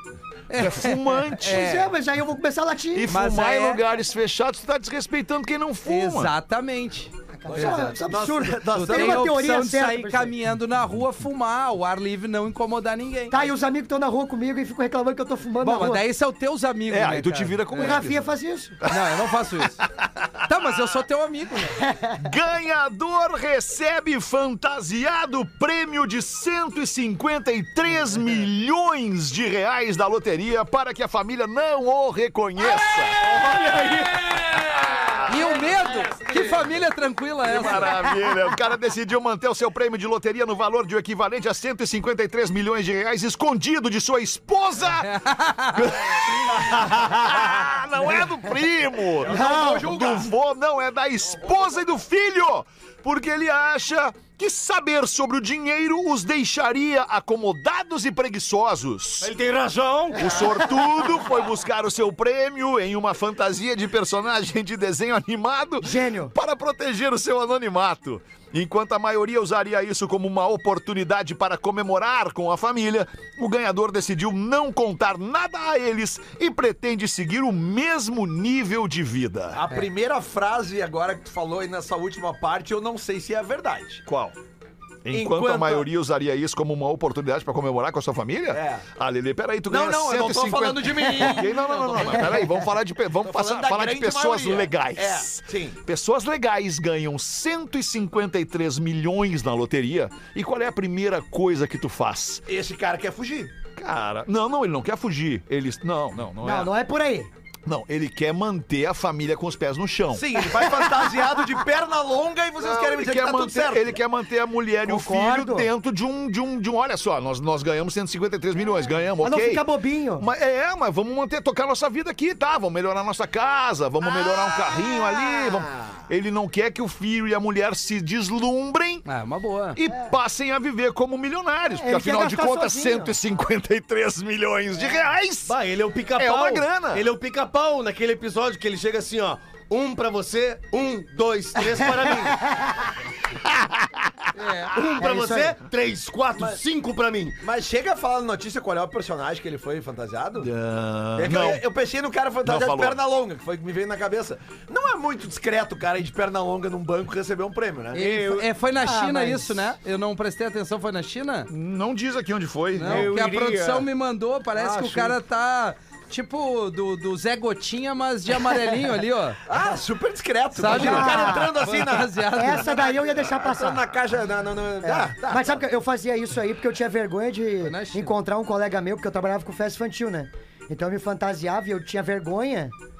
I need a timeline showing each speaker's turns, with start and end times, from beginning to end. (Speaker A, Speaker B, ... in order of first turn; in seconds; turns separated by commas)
Speaker A: 0.5-1.9, Speaker B: 0.5-1.7, Speaker C: 1.4-3.1, Speaker B: 2.9-6.3, Speaker A: 3.1-3.8, Speaker A: 5.8-8.0, Speaker C: 7.3-10.3, Speaker D: 7.5-9.3, Speaker A: 8.7-13.4, Speaker C: 13.3-16.0, Speaker A: 15.6-18.0, Speaker B: 16.9-18.3, Speaker C: 17.8-18.8, Speaker A: 18.8-19.8, Speaker B: 19.8-20.4, Speaker A: 20.4-21.8, Speaker C: 21.8-22.1, Speaker B: 22.2-33.4, Speaker E: 33.3-34.3, Speaker B: 34.5-35.6, Speaker A: 35.2-38.2, Speaker B: 37.4-45.1, Speaker A: 45.0-45.9, Speaker B: 45.7-59.3, Speaker D: 49.2-50.3, Speaker C: 49.3-49.9, Speaker E: 59.2-60.4, Speaker B: 60.1-79.6, Speaker C: 65.8-66.3, Speaker D: 79.5-84.0, Speaker B: 84.0-84.3, Speaker B: 85.0-102.4, Speaker D: 85.1-85.9, Speaker D: 88.5-88.8, Speaker D: 89.7-92.5, Speaker A: 91.6-92.2, Speaker D: 93.2-95.8, Speaker D: 102.5-103.5, Speaker B: 103.8-106.7, Speaker C: 106.4-107.3, Speaker B: 107.7-110.6, Speaker D: 110.1-114.0, Speaker B: 112.6-119.6, Speaker C: 114.8-115.7, Speaker C: 119.2-120.3, Speaker B: 120.2-129.0, Speaker D: 124.0-126.0, Speaker A: 129.1-129.8, Speaker B: 129.7-135.5, Speaker C: 131.7-133.1, Speaker E: 135.4-142.4, Speaker B: 136.1-137.1, Speaker B: 143.6-144.1, Speaker A: 144.3-144.7, Speaker E: 144.7-147.4, Speaker C: 145.0-145.6, Speaker D: 146.3-146.6, Speaker D: 147.4-150.5, Speaker B: 150.4-151.6, Speaker D: 151.2-158.0, Speaker B: 152.4-153.0, Speaker A: 157.9-161.5, Speaker E: 158.0-158.5, Speaker C: 158.8-159.7, Speaker B: 161.5-163.1, Speaker A: 162.7-169.4, Speaker E: 162.8-163.9, Speaker E: 164.6-165.2, Speaker D: 169.5-175.6, Speaker A: 170.6-172.8, Speaker C: 170.7-173.9, Speaker C: 174.8-182.7, Speaker A: 177.6-178.1